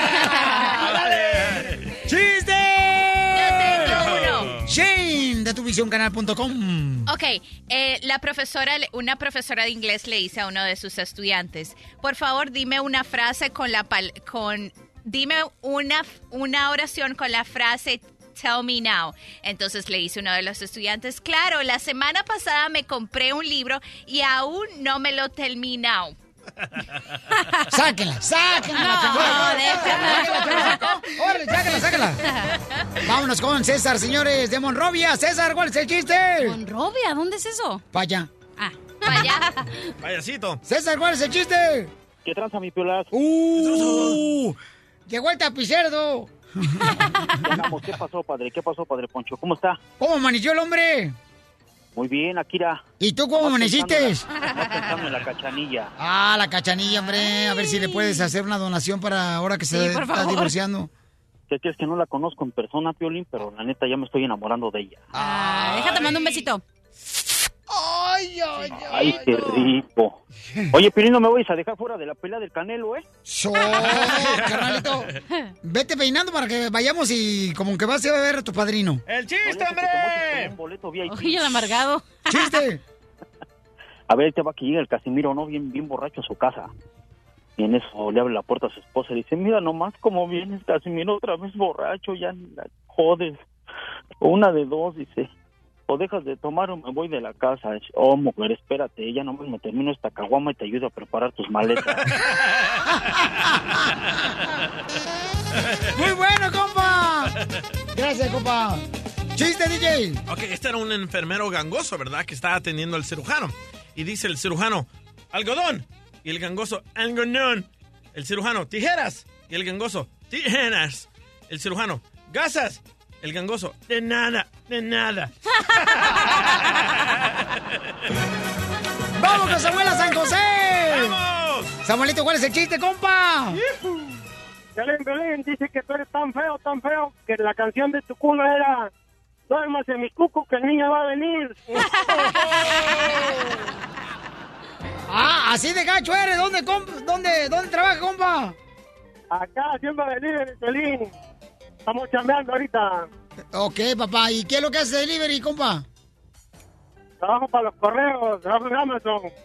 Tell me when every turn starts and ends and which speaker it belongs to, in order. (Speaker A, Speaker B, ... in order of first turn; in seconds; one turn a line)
Speaker A: 0.3-0.7
Speaker B: 0.9-1.8
Speaker C: 2.0-7.1
Speaker D: 3.3-4.5
Speaker B: 3.9-4.6
Speaker D: 7.0-26.1
Speaker A: 27.4-27.6
Speaker C: 27.7-32.2
Speaker A: 28.7-30.9
Speaker A: 32.2-32.5
Speaker C: 33.0-36.6
Speaker A: 36.4-37.8
Speaker C: 37.9-38.3
Speaker A: 38.6-39.8
Speaker D: 39.0-39.4
Speaker B: 40.0-40.6
Speaker C: 40.6-41.9
Speaker E: 42.2-43.1
Speaker C: 43.1-47.6
Speaker B: 43.6-44.2
Speaker E: 47.4-49.8
Speaker C: 50.0-51.1
Speaker E: 51.9-52.8
Speaker C: 53.0-54.2
Speaker E: 53.4-55.9
Speaker C: 56.0-60.9
Speaker A: 56.9-58.3
Speaker A: 59.7-60.5
Speaker E: 61.5-65.0
Speaker C: 65.1-66.0
Speaker A: 65.2-66.6
Speaker B: 65.8-66.2
Speaker C: 67.7-69.2
Speaker E: 68.8-70.2
Speaker E: 70.7-73.0
Speaker C: 73.2-79.0
Speaker B: 73.7-75.0
Speaker B: 79.1-80.5
Speaker E: 79.4-81.6
Speaker A: 81.1-82.6
Speaker C: 82.3-82.8
Speaker E: 84.1-86.7
Speaker E: 87.6-93.4
Speaker E: 94.2-95.3
Speaker E: 95.9-102.0
Speaker C: 102.9-103.8
Speaker C: 105.9-107.3
Speaker C: 107.9-108.8
Speaker C: 109.3-110.2
Speaker B: 110.3-127.6
Speaker C: 129.2-131.2
Speaker B: 130.9-131.8
Speaker C: 131.8-133.6
Speaker F: 134.8-138.7
Speaker F: 139.5-141.5
Speaker A: 142.1-142.8
Speaker C: 145.1-148.5
Speaker F: 149.3-151.1
Speaker F: 151.9-153.0
Speaker C: 153.5-155.8
Speaker F: 157.2-159.3